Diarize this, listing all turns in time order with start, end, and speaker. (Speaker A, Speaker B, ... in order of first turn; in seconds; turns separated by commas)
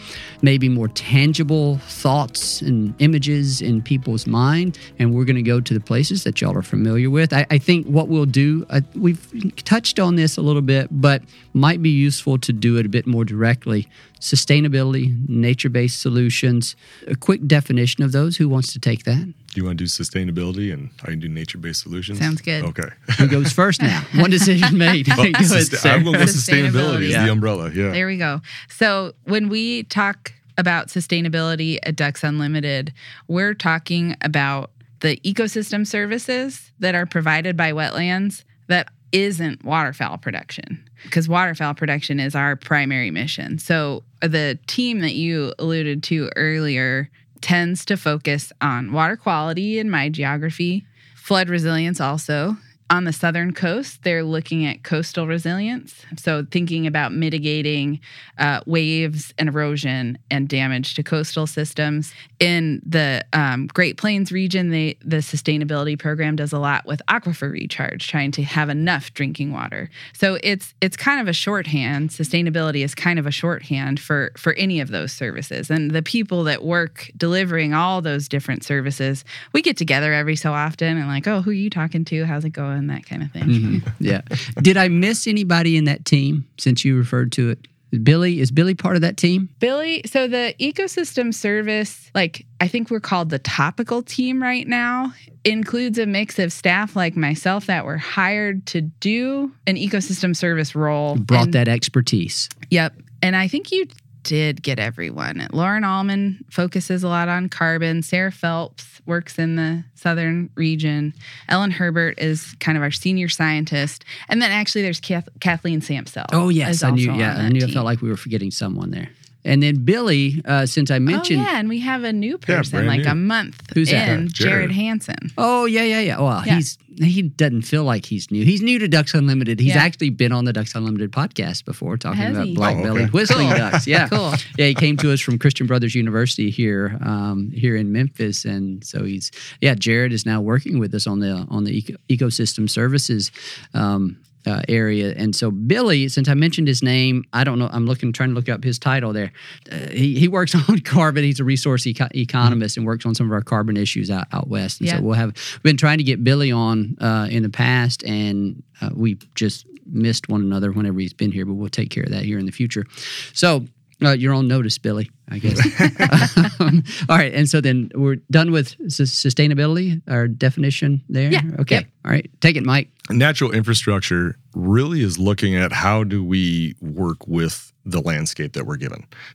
Speaker A: 0.4-19.3, Speaker B: 19.5-23.5, Speaker C: 22.1-22.7, Speaker A: 23.2-27.3, Speaker C: 24.1-24.4, Speaker B: 25.1-28.0, Speaker C: 26.2-27.3, Speaker C: 27.9-83.8, Speaker A: 83.5-89.5, Speaker C: 89.6-101.6, Speaker A: 101.1-102.5, Speaker C: 102.7-117.9, Speaker A: 116.3-121.5, Speaker C: 121.1-125.3, Speaker B: 122.5-123.2, Speaker A: 123.7-124.2, Speaker B: 124.2-124.7, Speaker A: 125.4-172.9, Speaker C: 129.6-129.9, Speaker C: 132.1-134.4, Speaker B: 132.6-133.8, Speaker B: 165.5-165.8, Speaker C: 171.3-171.8, Speaker B: 173.1-179.1